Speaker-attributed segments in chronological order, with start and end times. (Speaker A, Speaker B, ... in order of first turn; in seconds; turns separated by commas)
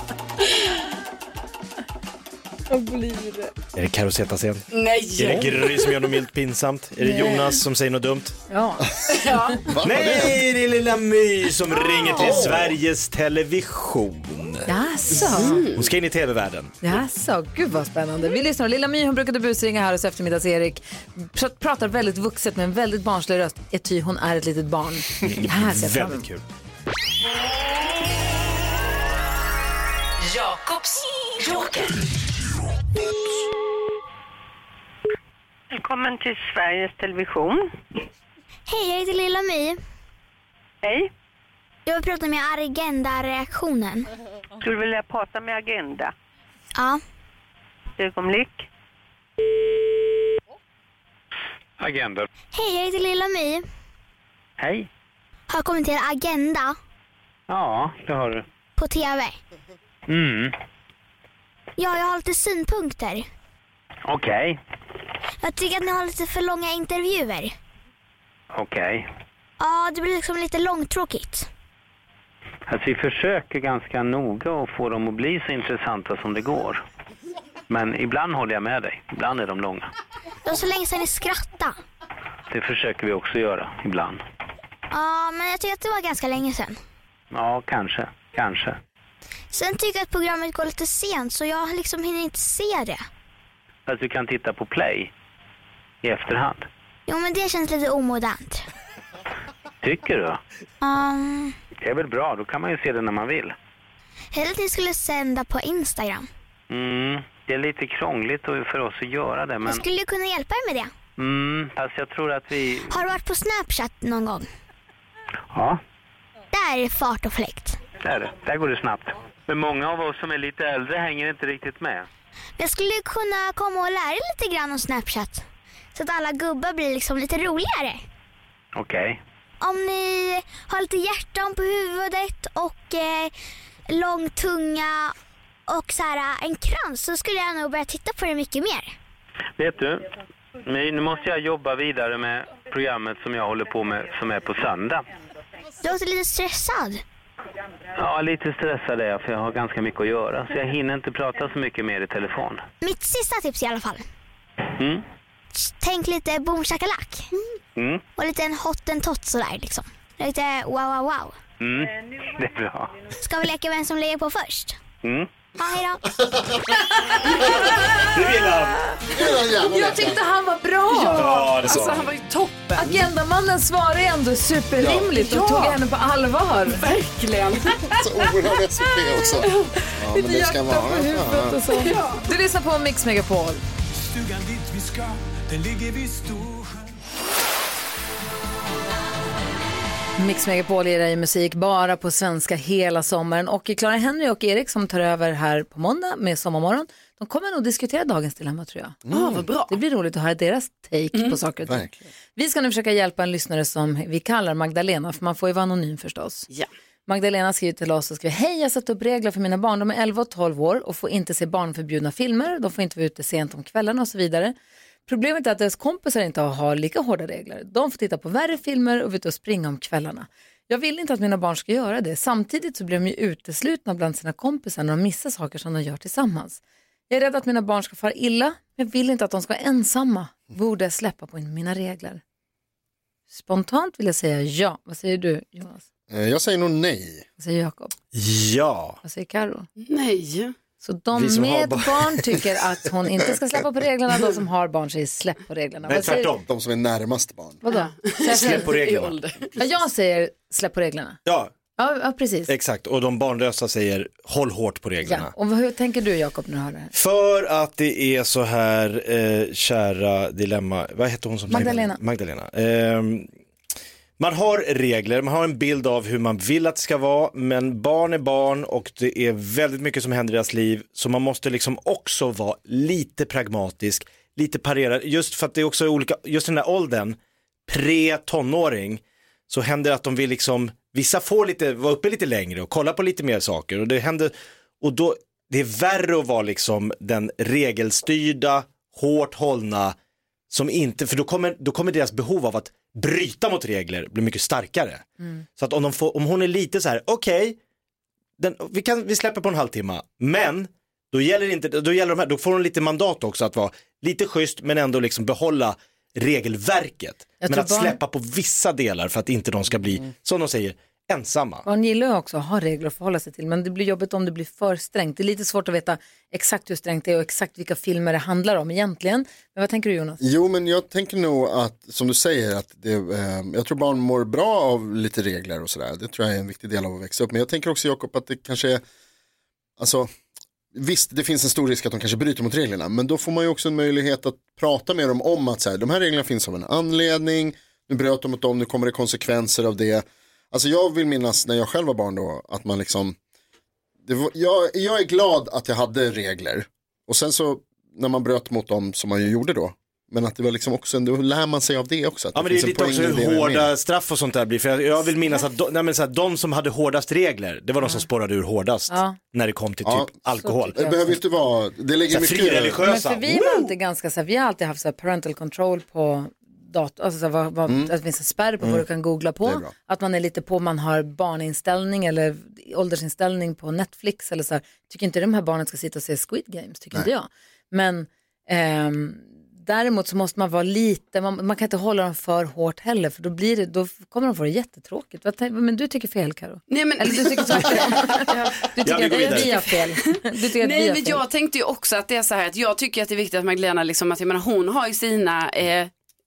Speaker A: 2.7-3.5, Speaker B: 3.8-8.3, Speaker C: 4.7-5.9, Speaker A: 7.0-7.3, Speaker A: 8.5-8.9, Speaker D: 9.1-10.4, Speaker C: 9.1-9.8, Speaker B: 9.8-14.7, Speaker D: 12.1-12.8, Speaker A: 14.7-15.6, Speaker B: 15.2-16.8, Speaker C: 15.2-15.9, Speaker A: 16.8-26.2, Speaker B: 25.2-26.4, Speaker A: 30.3-31.9, Speaker E: 35.7-37.7, Speaker F: 38.7-39.8, Speaker E: 40.8-41.1, Speaker F: 41.9-44.1, Speaker E: 44.6-46.1, Speaker F: 46.8-47.0, Speaker E: 48.0-48.7, Speaker G: 51.8-52.3, Speaker F: 52.5-53.6, Speaker G: 54.6-54.9, Speaker F: 55.5-56.8, Speaker G: 57.5-58.4, Speaker F: 58.8-59.4, Speaker G: 60.1-60.5, Speaker F: 61.8-63.2, Speaker G: 64.0-64.6, Speaker F: 65.4-67.5, Speaker G: 68.5-69.1, Speaker F: 69.6-71.5, Speaker G: 72.7-76.8, Speaker G: 77.7-79.9, Speaker F: 80.4-81.8, Speaker G: 82.5-84.2, Speaker F: 84.9-86.8, Speaker G: 87.3-88.8, Speaker F: 89.5-93.0, Speaker G: 93.9-95.1, Speaker G: 96.0-96.7, Speaker F: 97.1-98.7, Speaker G: 99.8-100.4, Speaker F: 100.8-101.5, Speaker G: 101.8-103.5, Speaker F: 104.3-106.3, Speaker G: 106.7-109.8, Speaker F: 109.6-110.9, Speaker G: 111.2-113.0, Speaker F: 112.9-114.5, Speaker G: 115.5-115.8, Speaker F: 116.5-117.8, Speaker G: 117.9-122.1, Speaker F: 122.6-128.0, Speaker G: 128.7-129.2, Speaker F: 129.6-133.3, Speaker F: 133.9-135.1, Speaker F: 135.7-138.9, Speaker G: 139.6-145.0, Speaker F: 145.8-147.0, Speaker G: 147.9-152.6, Speaker F: 152.8-154.1, Speaker G: 154.8-155.0, Speaker F: 155.5-157.3, Speaker G: 157.8-158.0, Speaker F: 158.2-161.4, Speaker G: 161.6-163.0, Speaker F: 163.2-164.8, Speaker G: 165.0-165.3, Speaker F: 165.6-166.2, Speaker D: 166.2-166.6, Speaker A: 167.4-168.1, Speaker B: 167.8-168.8, Speaker D: 169.1-170.2, Speaker A: 169.6-171.3, Speaker C: 170.9-173.0, Speaker B: 171.1-172.1, Speaker A: 172.7-176.8, Speaker D: 174.8-175.1, Speaker C: 175.1-175.8, Speaker C: 176.7-177.9, Speaker D: 177.9-181.6, Speaker C: 179.3-179.7, Speaker A: 180.1-183.6, Speaker C: 181.7-182.3, Speaker H: 184.1-186.8, Speaker A: 190.2-199.0, Speaker D: 199.1-199.4, Speaker C: 199.1-199.8, Speaker A: 199.7-206.5, Speaker D: 201.7-202.0, Speaker A: 207.1-214.5, Speaker A: 215.1-232.2, Speaker A: 233.3-235.8, Speaker D: 236.1-237.2, Speaker A: 237.4-237.9, Speaker B: 238.1-239.0, Speaker A: 239.0-239.7, Speaker C: 239.8-240.5, Speaker A: 240.8-246.3, Speaker B: 241.1-242.4, Speaker B: 245.9-246.5, Speaker D: 245.9-247.6, Speaker A: 247.6-248.7, Speaker C: 247.7-249.5, Speaker B: 248.2-249.2, Speaker A: 249.6-251.2, Speaker B: 251.2-251.5, Speaker A: 251.8-252.5, Speaker B: 252.5-255.3, Speaker A: 255.0-256.9, Speaker B: 256.9-263.3, Speaker A: 261.5-262.0, Speaker B: 264.2-289.9, Speaker B: 290.5-297.6, Speaker B: 298.4-311.6, Speaker A: 307.4-308.0, Speaker A: 311.6-320.2, Speaker D: 320.2-328.8, Speaker D: 329.8-330.1, Speaker D: 330.7-343.1, Speaker D: 344.0-353.7, Speaker B: 352.3-360.8, Speaker A: 358.9-359.2, Speaker D: 359.8-360.2, Speaker A: 360.4-361.1, Speaker D: 360.7-362.9, Speaker B: 362.1-363.6, Speaker A: 362.8-391.2, Speaker D: 367.7-367.9, Speaker D: 369.4-369.7, Speaker C: 386.7-388.5, Speaker B: 388.8-389.7, Speaker C: 390.6-395.9